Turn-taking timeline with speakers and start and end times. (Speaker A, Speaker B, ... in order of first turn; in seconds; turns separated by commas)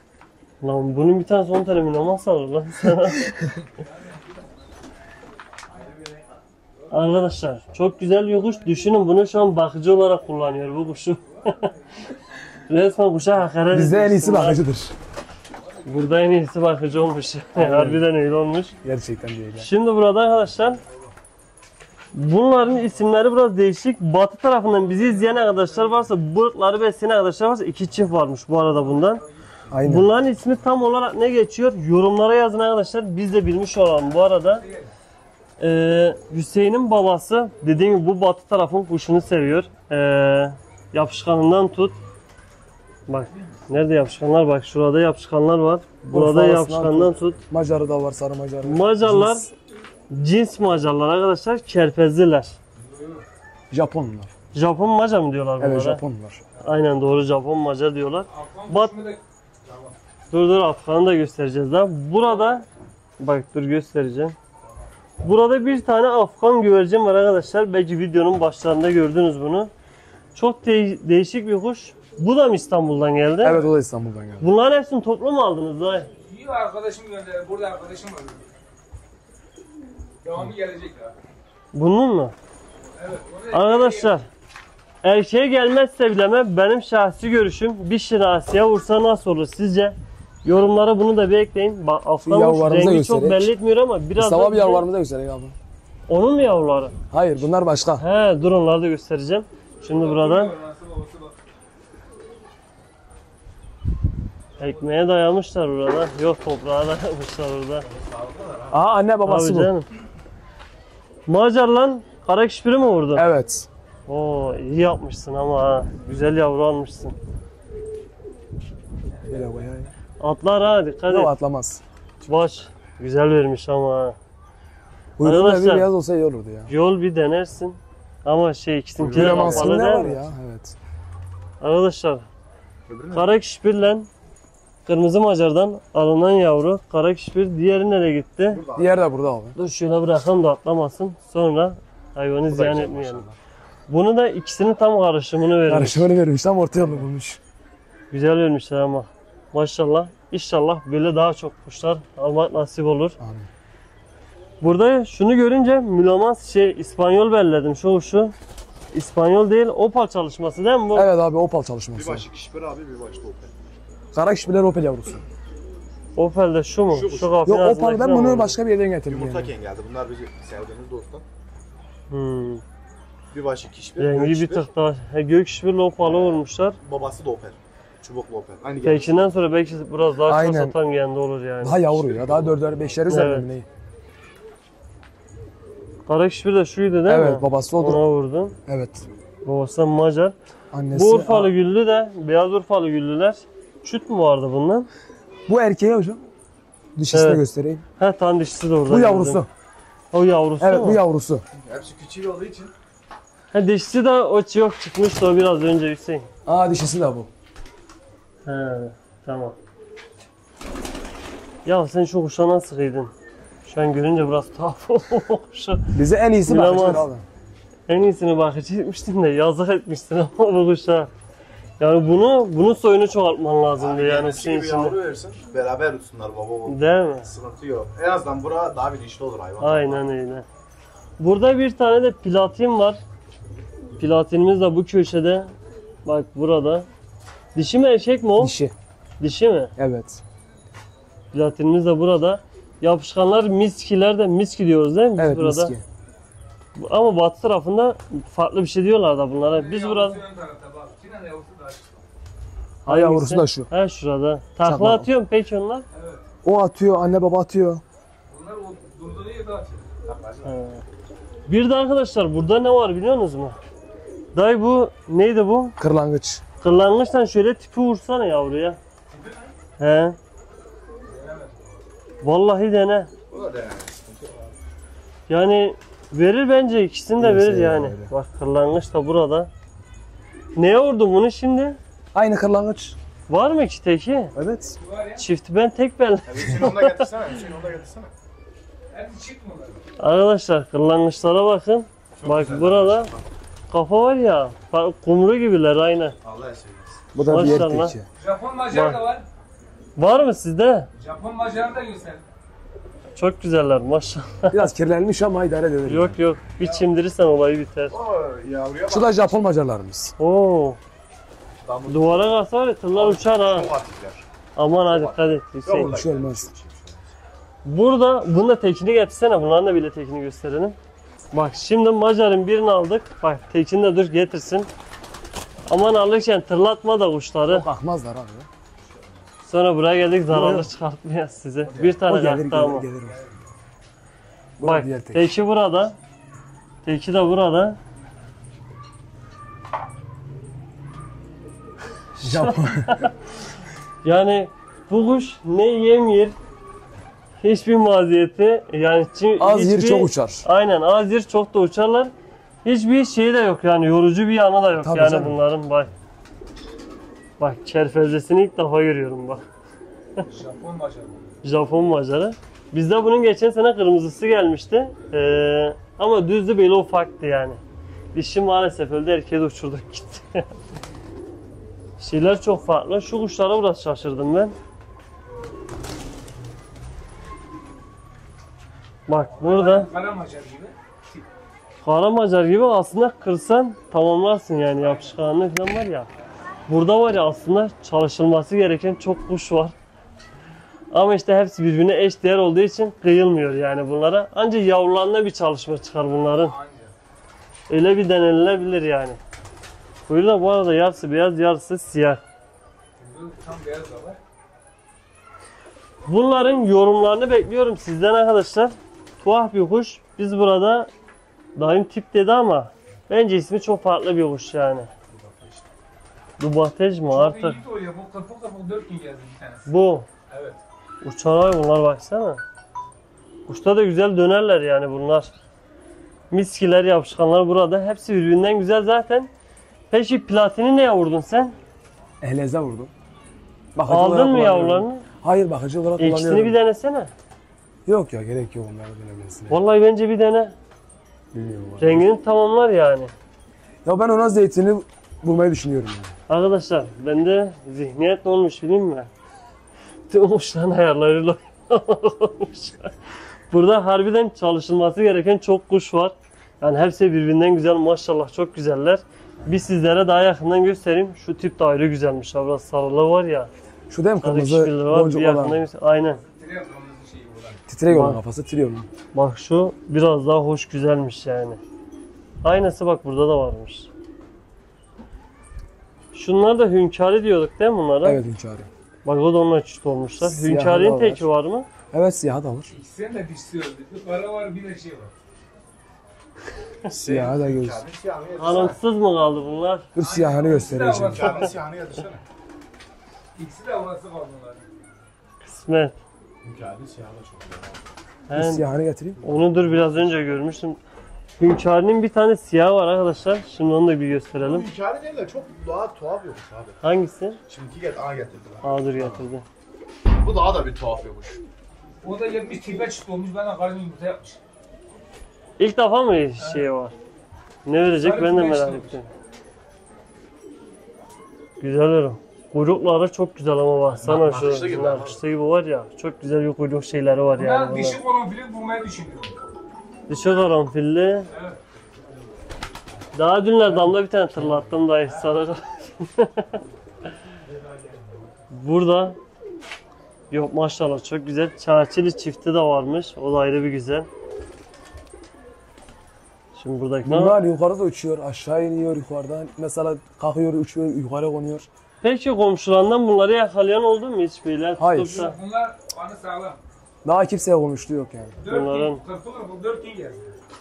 Speaker A: 0.6-3.2, Speaker A: 6.9-11.7, Speaker A: 12.7-14.6, Speaker B: 13.7-14.9, Speaker A: 15.8-18.8, Speaker B: 17.6-18.0, Speaker B: 18.8-19.7, Speaker A: 19.6-20.8, Speaker A: 22.1-29.2, Speaker C: 25.3-25.5, Speaker B: 29.7-30.1, Speaker A: 29.8-34.6, Speaker C: 34.6-34.9, Speaker A: 35.6-42.0, Speaker A: 43.1-47.4, Speaker B: 46.0-49.5, Speaker A: 48.6-49.5, Speaker A: 50.1-52.5, Speaker C: 52.9-53.2, Speaker B: 53.7-54.3, Speaker A: 54.5-56.0, Speaker B: 55.6-56.4, Speaker A: 56.6-59.0, Speaker C: 58.3-59.9, Speaker A: 60.3-62.6, Speaker A: 63.2-64.4, Speaker A: 65.2-69.7, Speaker A: 70.3-73.6, Speaker B: 73.4-74.5, Speaker A: 74.4-76.1, Speaker C: 76.2-78.4, Speaker C: 80.2-81.1, Speaker A: 81.7-82.3, Speaker C: 83.0-84.1, Speaker A: 83.5-84.3, Speaker A: 85.0-94.9, Speaker B: 92.2-93.5, Speaker B: 94.2-95.5, Speaker A: 96.1-96.9, Speaker B: 97.1-98.0, Speaker A: 98.0-100.5, Speaker C: 99.9-101.3, Speaker A: 104.6-107.8, Speaker D: 107.8-108.8, Speaker B: 108.7-109.7, Speaker A: 109.2-109.9, Speaker A: 111.3-113.2, Speaker B: 113.1-113.7, Speaker A: 114.1-117.2, Speaker B: 119.3-119.9, Speaker A: 120.2-121.3, Speaker B: 121.1-121.8, Speaker A: 122.2-124.2, Speaker B: 125.2-126.7, Speaker A: 125.2-125.9, Speaker A: 126.7-130.2, Speaker D: 129.0-129.8, Speaker B: 129.1-130.8, Speaker A: 131.6-132.2, Speaker D: 132.9-133.3, Speaker A: 133.1-134.1, Speaker A: 134.9-138.6, Speaker D: 138.5-139.0, Speaker B: 138.8-139.6, Speaker A: 139.6-143.2, Speaker D: 142.5-143.4, Speaker A: 143.9-146.1, Speaker B: 145.7-147.4, Speaker A: 148.1-153.2, Speaker B: 153.2-153.5, Speaker A: 154.6-158.3, Speaker A: 158.9-161.1, Speaker B: 160.9-162.2, Speaker D: 161.9-163.5, Speaker B: 164.1-165.2, Speaker A: 166.2-168.6, Speaker D: 166.9-167.4, Speaker B: 167.4-169.5, Speaker D: 169.1-171.2, Speaker A: 172.1-172.6, Speaker D: 173.3-174.6, Speaker A: 174.0-176.8, Speaker D: 176.0-179.2, Speaker A: 178.8-182.0, Speaker B: 180.3-180.8, Speaker B: 181.6-183.7, Speaker D: 182.0-182.8, Speaker A: 183.1-183.5, Speaker A: 186.1-188.6, Speaker B: 187.1-188.0, Speaker B: 188.7-189.1, Speaker A: 189.4-190.3, Speaker B: 190.7-191.5, Speaker A: 190.9-194.9, Speaker B: 195.5-196.2, Speaker B: 196.9-197.8, Speaker A: 197.1-197.4, Speaker A: 198.0-199.4, Speaker B: 198.9-199.5, Speaker A: 200.1-201.0, Speaker B: 200.6-201.4, Speaker D: 201.6-202.7, Speaker A: 203.5-206.3, Speaker B: 206.4-207.3, Speaker A: 208.4-209.5, Speaker A: 211.6-213.1, Speaker A: 213.6-217.1, Speaker B: 215.9-217.2, Speaker A: 217.9-221.1, Speaker A: 221.8-224.9, Speaker D: 223.8-230.1, Speaker A: 226.7-227.3, Speaker A: 229.6-230.4, Speaker A: 231.2-233.0, Speaker A: 234.0-235.5, Speaker A: 236.0-236.9, Speaker A: 237.5-238.5, Speaker B: 238.4-238.7, Speaker A: 239.2-239.7, Speaker B: 239.8-240.2, Speaker A: 241.3-245.7, Speaker B: 245.2-245.8, Speaker A: 246.8-250.2, Speaker C: 249.5-252.0, Speaker B: 252.8-253.7, Speaker A: 252.9-255.8, Speaker B: 254.6-255.1, Speaker C: 255.9-256.2, Speaker B: 256.4-257.8, Speaker C: 258.3-259.9, Speaker D: 260.0-260.6, Speaker A: 260.4-260.8, Speaker A: 261.5-263.6, Speaker A: 264.3-265.8, Speaker B: 265.8-266.4, Speaker A: 266.6-268.8, Speaker C: 269.1-269.4, Speaker A: 269.8-270.2, Speaker C: 271.1-271.8, Speaker A: 272.2-273.1, Speaker D: 273.3-274.5, Speaker A: 275.3-279.5, Speaker B: 277.2-278.1, Speaker A: 280.6-281.8, Speaker B: 282.1-283.0, Speaker A: 283.3-284.3, Speaker B: 284.4-284.8, Speaker C: 284.8-285.2, Speaker A: 285.2-287.1, Speaker D: 286.2-288.1, Speaker C: 288.9-289.8, Speaker A: 290.0-293.1, Speaker D: 292.2-293.2, Speaker A: 293.7-296.1, Speaker D: 296.2-297.0, Speaker B: 297.1-298.1, Speaker A: 297.2-297.9, Speaker C: 298.2-299.2, Speaker A: 298.7-299.0, Speaker A: 300.0-300.9, Speaker C: 301.0-302.2, Speaker A: 303.1-304.6, Speaker B: 304.5-306.2, Speaker A: 305.9-307.9, Speaker D: 307.9-309.3, Speaker B: 308.9-310.1, Speaker A: 310.2-310.8, Speaker D: 311.6-312.4, Speaker A: 311.9-313.7, Speaker D: 312.9-314.2, Speaker A: 314.6-315.9, Speaker D: 314.9-317.1, Speaker B: 315.9-316.5, Speaker A: 317.6-320.8, Speaker A: 321.3-324.7, Speaker A: 325.7-327.7, Speaker B: 327.5-328.5, Speaker A: 329.4-332.9, Speaker B: 330.3-330.7, Speaker D: 331.7-332.0, Speaker B: 332.0-333.2, Speaker B: 334.6-335.3, Speaker A: 334.6-335.9, Speaker A: 336.8-337.8, Speaker A: 342.2-343.1, Speaker B: 342.2-343.1, Speaker A: 344.0-346.4, Speaker A: 347.4-352.1, Speaker B: 349.4-350.4, Speaker A: 352.6-355.9, Speaker B: 354.8-355.4, Speaker A: 357.4-359.4, Speaker C: 360.3-361.3, Speaker A: 361.4-367.6, Speaker A: 368.1-370.5, Speaker A: 372.0-374.5, Speaker A: 379.1-379.9, Speaker C: 379.4-381.2, Speaker A: 381.8-386.1, Speaker C: 384.8-385.1, Speaker A: 386.7-389.8, Speaker A: 390.9-396.5, Speaker C: 396.5-396.9, Speaker A: 397.7-399.2, Speaker A: 400.1-402.2, Speaker C: 403.0-404.2, Speaker A: 406.0-410.9, Speaker A: 411.6-414.9, Speaker C: 415.2-415.6, Speaker A: 416.4-417.6, Speaker C: 417.1-419.7, Speaker A: 419.7-420.1, Speaker C: 420.3-420.6, Speaker A: 421.0-422.4, Speaker A: 423.5-425.3, Speaker A: 426.3-429.3, Speaker A: 429.9-431.5, Speaker B: 432.2-432.9, Speaker B: 433.8-436.6, Speaker A: 433.9-435.1, Speaker A: 436.0-437.1, Speaker B: 437.9-439.6, Speaker A: 439.5-440.5, Speaker B: 441.3-442.1, Speaker A: 441.8-443.1, Speaker B: 443.9-446.1, Speaker A: 446.3-449.1, Speaker A: 450.1-452.9, Speaker A: 453.5-463.5, Speaker B: 463.9-465.6, Speaker A: 464.2-466.2, Speaker C: 466.2-467.6, Speaker B: 467.7-468.9, Speaker A: 467.9-468.2, Speaker A: 469.1-471.6, Speaker A: 472.4-473.9, Speaker A: 476.1-478.2, Speaker B: 478.0-478.7, Speaker A: 479.0-481.7, Speaker B: 480.2-481.2, Speaker B: 481.9-482.7, Speaker C: 482.7-485.1, Speaker D: 486.9-488.8, Speaker B: 487.0-487.8, Speaker A: 488.4-489.9, Speaker B: 489.9-491.4, Speaker C: 490.0-491.5, Speaker D: 490.9-492.2, Speaker C: 493.4-494.6, Speaker A: 495.4-496.0, Speaker D: 496.4-497.9, Speaker A: 498.3-498.6, Speaker B: 498.3-499.3, Speaker A: 499.2-500.8, Speaker D: 499.2-500.0, Speaker A: 501.4-504.7, Speaker D: 504.4-506.8, Speaker A: 506.8-507.4, Speaker D: 507.5-509.3, Speaker A: 508.6-509.4, Speaker D: 510.1-511.4, Speaker C: 512.0-514.4, Speaker A: 515.6-516.9, Speaker A: 517.6-519.1, Speaker C: 518.0-519.0, Speaker A: 521.6-528.0, Speaker D: 524.0-525.2, Speaker C: 527.4-529.4, Speaker A: 530.1-531.3, Speaker C: 531.3-531.6, Speaker A: 533.1-536.6, Speaker C: 533.8-535.2, Speaker C: 537.5-538.3, Speaker A: 538.5-539.2, Speaker A: 540.3-544.1, Speaker A: 546.5-547.4, Speaker B: 547.0-551.7, Speaker A: 552.0-555.4, Speaker B: 554.8-555.2, Speaker C: 555.1-556.6, Speaker B: 557.0-558.4, Speaker C: 558.4-560.3, Speaker A: 558.5-559.0